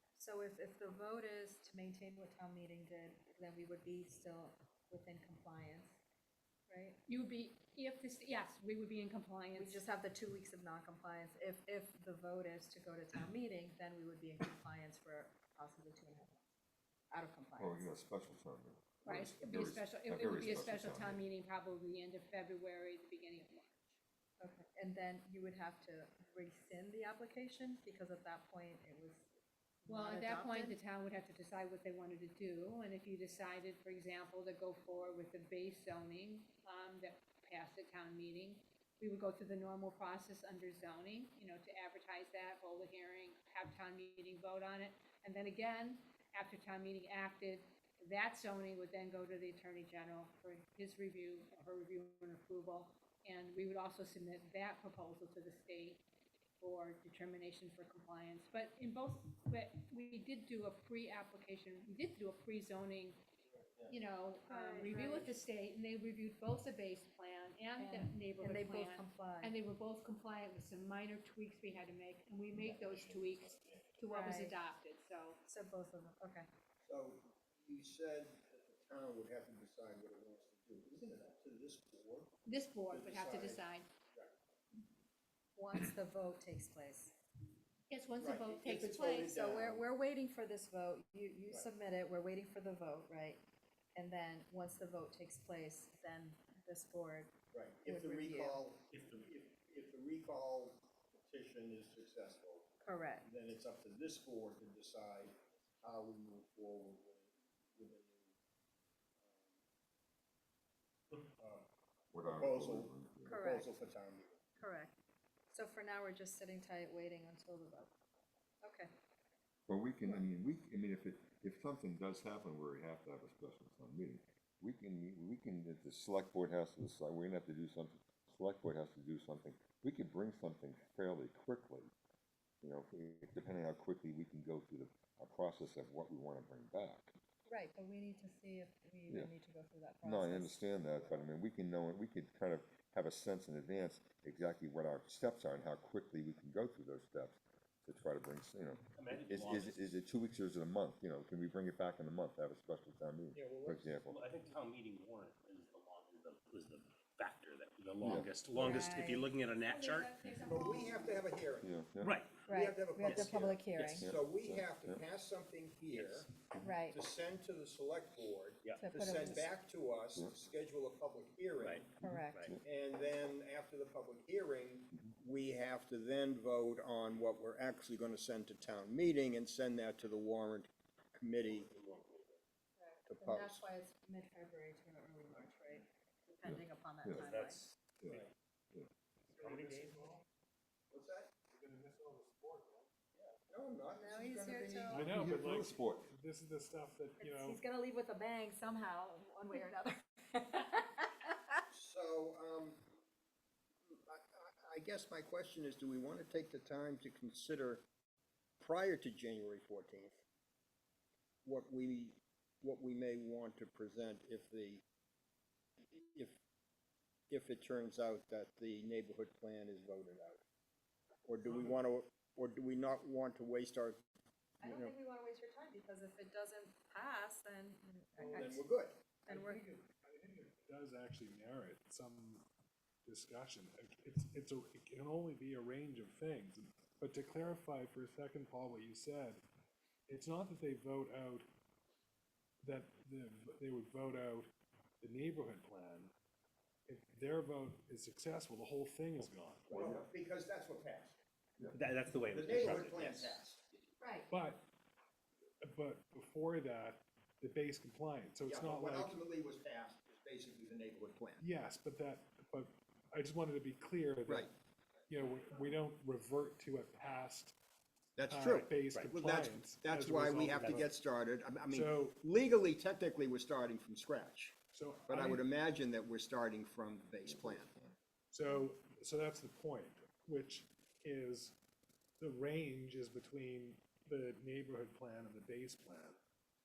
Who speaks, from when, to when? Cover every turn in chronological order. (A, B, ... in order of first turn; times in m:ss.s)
0:00.2-0:06.0 A
0:06.7-0:07.0 A
0:07.1-0:09.8 B
0:09.6-0:16.4 A
0:17.1-0:17.9 A
0:17.6-0:21.2 C
0:19.0-0:24.0 B
0:24.4-0:29.3 A
0:29.8-0:30.8 A
0:29.9-0:56.0 B
0:56.6-1:03.2 B
1:03.9-1:15.4 B
1:04.5-1:05.4 A
1:07.8-1:09.5 A
1:12.5-1:14.0 D
1:14.1-1:14.6 A
1:15.5-1:16.5 A
1:16.8-1:22.3 E
1:22.4-1:23.9 B
1:22.9-1:23.6 E
1:25.6-1:27.2 A
1:27.9-1:29.3 B
1:28.2-1:29.8 E
1:29.3-1:33.4 A
1:33.9-1:37.3 A
1:37.5-1:42.7 E
1:37.8-1:38.6 A
1:38.9-1:39.3 D
1:42.8-1:43.2 A
1:43.2-1:48.3 E
1:49.2-1:49.5 E
1:51.4-1:51.7 E
1:52.1-1:53.4 C
1:52.3-1:54.4 E
1:53.2-1:53.7 A
1:54.6-1:54.9 A
1:55.5-1:57.9 A
1:58.6-1:58.9 A
1:59.7-2:11.9 C
2:12.6-2:17.1 C
2:17.5-2:21.2 A
2:20.0-2:34.2 C
2:28.9-2:30.0 D
2:33.3-2:34.0 E
2:34.1-2:40.2 D
2:38.0-2:38.3 C
2:38.5-2:39.3 A
2:39.7-2:41.1 B
2:40.0-2:41.0 A
2:40.4-2:41.7 E
2:41.6-2:42.1 C
2:42.0-2:42.5 D
2:42.5-2:44.1 A
2:42.5-2:46.3 E
2:43.0-2:44.0 D
2:44.0-2:45.0 C
2:45.9-2:46.3 D
2:46.6-2:47.0 A
2:46.9-2:51.9 E
2:48.8-2:49.5 A
2:51.6-2:52.5 D
2:52.0-2:52.5 A
2:52.0-2:52.6 C
2:52.6-3:01.7 E
3:01.4-3:02.4 D
3:02.8-3:07.6 A
3:03.0-3:03.7 E
3:06.4-3:07.3 C
3:07.1-3:08.3 D
3:08.0-3:08.9 C
3:09.3-3:10.2 F
3:09.4-3:09.9 D
3:09.7-3:10.2 A
3:10.9-3:11.3 E
3:11.5-3:12.9 F
3:13.5-3:15.2 E
3:13.9-3:15.1 A
3:14.9-3:17.6 F
3:15.0-3:16.1 C
3:17.2-3:21.5 A
3:21.7-3:22.8 E
3:23.8-3:27.8 E
3:28.6-3:30.2 E
3:31.4-3:34.8 E
3:35.9-3:36.3 E
3:37.3-3:40.4 E
3:41.2-3:44.0 E
3:41.4-3:41.8 F
3:44.6-3:48.6 A
3:44.6-3:44.9 E
3:48.2-3:48.6 F
3:48.3-3:49.0 E
3:49.2-3:49.6 A
3:49.3-3:52.4 F
3:53.0-3:59.4 F
4:00.1-4:01.5 F
4:02.6-4:04.5 F
4:05.0-4:06.1 F
4:06.9-4:09.8 F
4:09.7-4:11.2 E
4:09.7-4:10.0 C
4:11.7-4:13.4 D
4:12.3-4:13.6 E
4:14.0-4:14.3 A
4:14.3-4:14.6 F
4:15.6-4:19.2 F
4:18.4-4:21.4 E
4:21.4-4:24.5 F
4:24.3-4:24.5 E
4:25.1-4:27.5 F
4:28.2-4:34.6 E
4:28.3-4:30.9 F
4:28.8-4:29.2 D
4:30.4-4:30.8 D
4:31.7-4:32.2 F
4:34.7-4:35.4 F
4:35.1-4:37.7 E
4:37.3-4:37.9 C
4:38.3-4:41.6 F
4:42.2-4:46.2 F